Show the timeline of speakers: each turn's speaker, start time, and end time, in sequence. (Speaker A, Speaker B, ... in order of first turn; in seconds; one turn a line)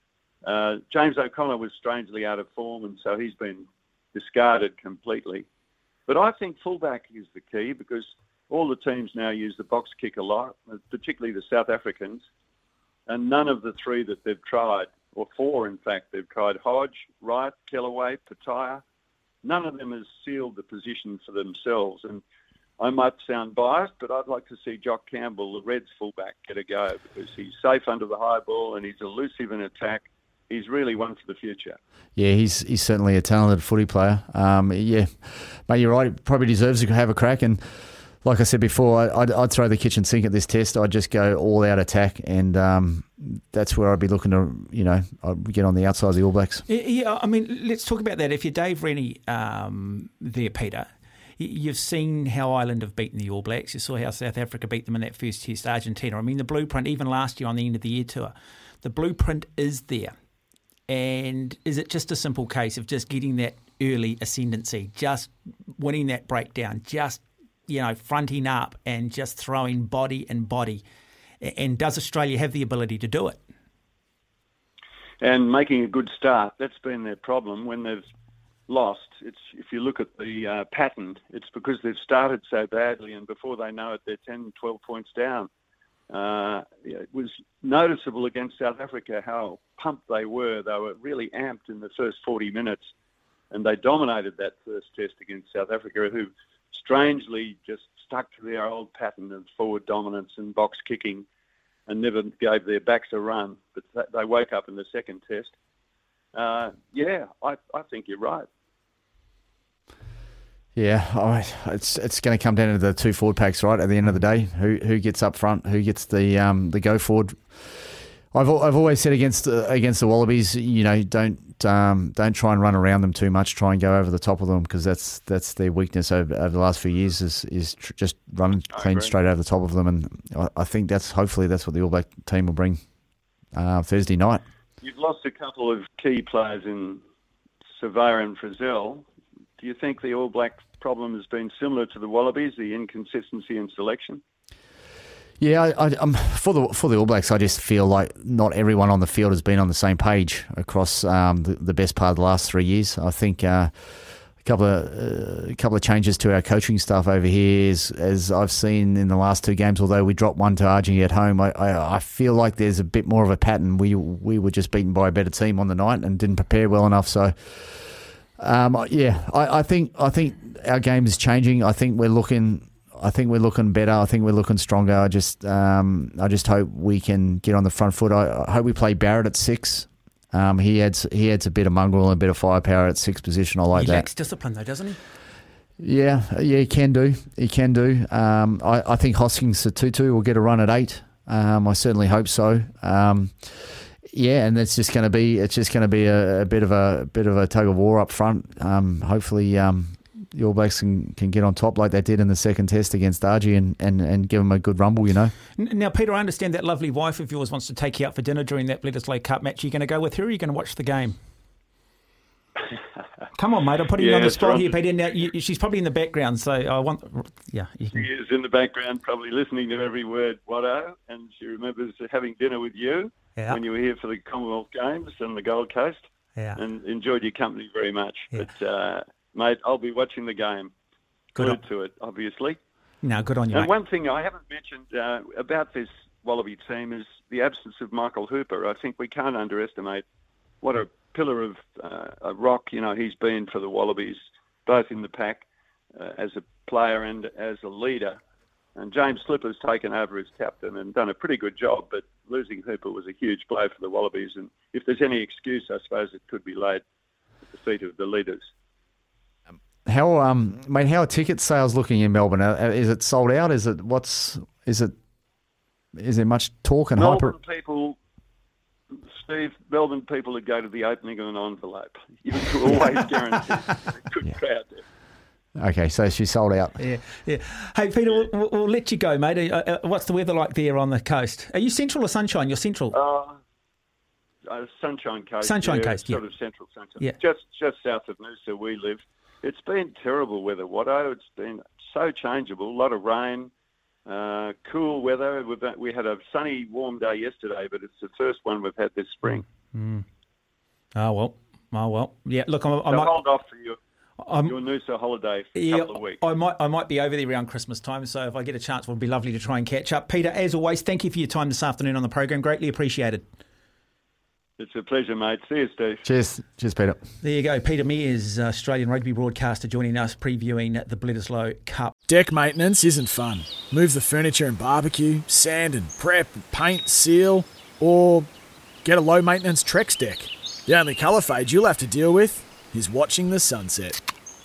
Speaker A: 0.4-5.4
Speaker A: 6.1-12.2
Speaker A: 13.1-18.8
Speaker A: 19.4-22.2
Speaker A: 22.8-31.8
Speaker B: 32.1-37.6
Speaker B: 38.2-46.6
Speaker C: 46.7-60.1
Speaker C: 60.9-70.8
Speaker C: 71.4-73.4
Speaker A: 75.2-78.0
Speaker A: 78.7-85.5
Speaker A: 86.1-92.9
Speaker A: 93.5-101.2
Speaker A: 101.9-105.5
Speaker A: 106.3-108.4
Speaker B: 110.8-132.8
Speaker A: 128.7-129.1
Speaker B: 133.5-134.4
Speaker A: 134.8-137.0
Speaker A: 137.7-139.1
Speaker A: 139.6-144.2
Speaker B: 145.4-184.1
Speaker C: 183.7-185.0
Speaker B: 185.8-205.3
Speaker C: 205.6-211.2
Speaker C: 213.3-218.0
Speaker A: 214.0-214.7
Speaker A: 217.9-226.0
Speaker A: 226.6-230.7
Speaker A: 231.3-232.6
Speaker C: 233.0-233.7
Speaker A: 233.5-240.0
Speaker A: 240.6-248.2
Speaker A: 248.8-256.8
Speaker A: 257.5-258.5
Speaker B: 259.8-264.9
Speaker B: 265.9-267.3
Speaker A: 266.9-268.0
Speaker A: 269.1-274.8
Speaker B: 275.6-276.8
Speaker C: 276.8-282.9
Speaker A: 282.9-283.4
Speaker A: 284.5-293.5
Speaker C: 285.4-286.2
Speaker A: 294.1-299.4
Speaker C: 299.3-300.0
Speaker C: 300.9-303.1
Speaker A: 302.9-303.8
Speaker C: 304.2-304.5
Speaker A: 304.4-306.2
Speaker C: 305.5-313.2
Speaker A: 314.6-316.0
Speaker B: 316.0-317.0
Speaker C: 317.2-321.9
Speaker D: 322.1-328.3
Speaker D: 328.8-334.0